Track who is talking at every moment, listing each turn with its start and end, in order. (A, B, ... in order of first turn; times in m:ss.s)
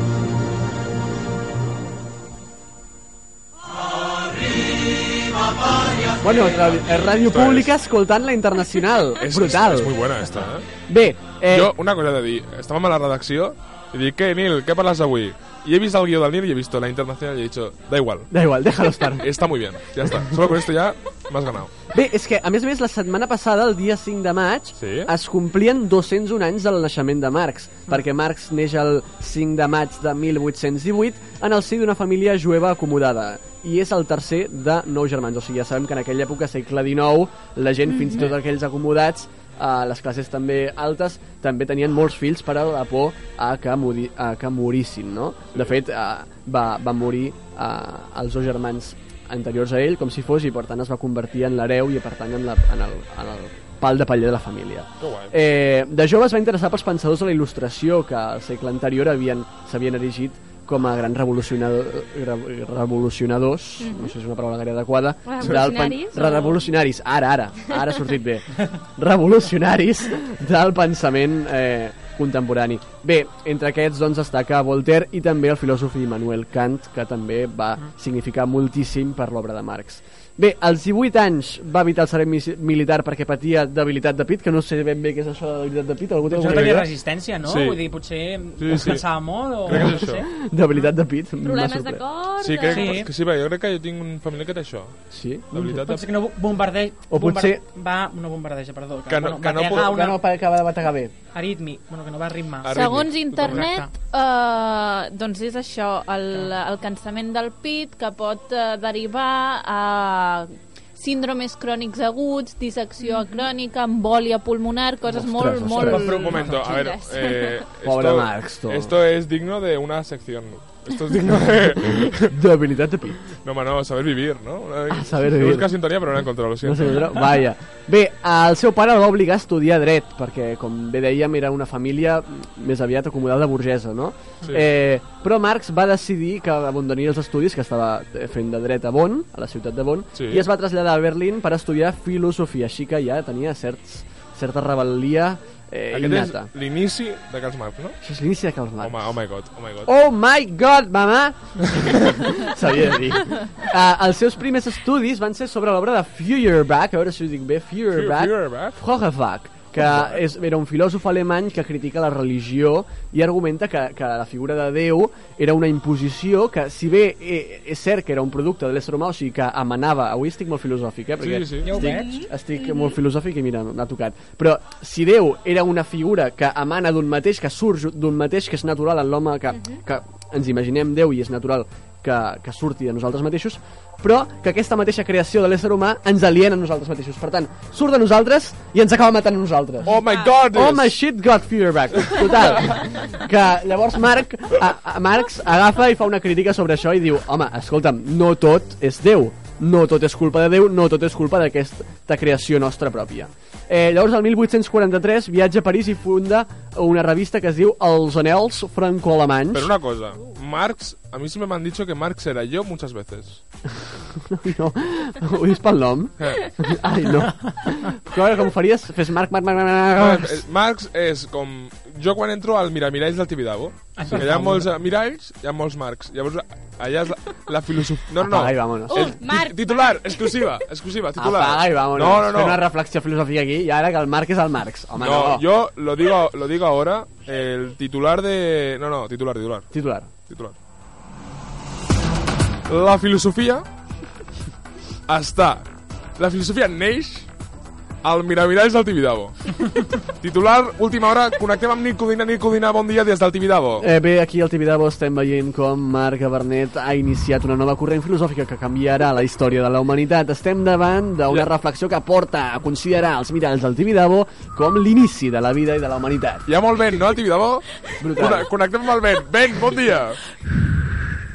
0:06.2-0:10.0 A
0:07.2-0:07.7 B
0:09.2-0:10.7 B
0:10.9-0:11.7 A
0:11.5-0:18.3 B
0:18.3-0:19.2 A
0:19.2-0:21.7 B
0:21.9-1:26.8 A
0:24.8-0:25.1 B
0:38.0-0:38.2 C
0:55.0-0:55.4 B
1:03.8-1:04.2 C
1:05.3-1:06.6 C
1:26.3-1:30.2 D
1:26.4-1:26.9 B
1:27.4-1:27.9 B
1:28.6-1:29.1 B
1:29.6-1:30.2 B
1:29.8-1:32.0 A
1:31.4-1:33.1 C
1:32.4-1:35.0 B
1:32.7-1:33.1 D
1:35.1-1:35.8 A
1:35.5-1:36.0 B
1:35.8-1:40.2 D
1:37.1-1:37.6 A
1:39.1-1:40.0 B
1:39.7-1:41.1 A
1:41.3-1:43.9 D
1:42.6-1:43.7 B
1:42.8-1:57.6 E
1:46.3-1:46.6 D
1:55.1-1:56.4 A
1:55.8-1:56.8 D
1:56.2-2:02.3 B
1:57.8-1:58.9 A
2:02.3-2:03.3 A
2:03.4-2:07.0 B
2:04.9-2:05.7 A
2:06.6-2:26.5 A
2:20.2-2:20.5 B
2:25.9-2:28.0 B
2:28.0-2:29.2 A
2:28.8-2:29.9 B
2:29.9-3:10.0 A
2:37.9-2:38.8 B
2:51.2-2:51.8 B
2:51.6-2:52.2 D
2:51.8-2:52.3 C
3:09.8-3:11.0 B
3:10.1-3:10.4 C
3:10.5-3:29.7 A
3:29.5-3:33.4 B
3:34.3-3:40.4 A
3:40.0-3:52.6 B
3:44.0-3:44.7 D
3:48.2-3:49.1 A
3:48.9-3:50.5 C
3:51.2-3:55.4 A
3:55.0-3:59.7 B
3:59.7-4:00.1 A
4:00.3-4:00.6 B
4:02.7-4:03.6 B
4:05.1-4:07.3 B
4:08.0-4:09.4 B
4:10.2-4:13.9 B
4:13.8-4:26.5 A
4:26.5-4:27.7 B
4:28.0-4:28.5 A
4:28.2-4:30.2 B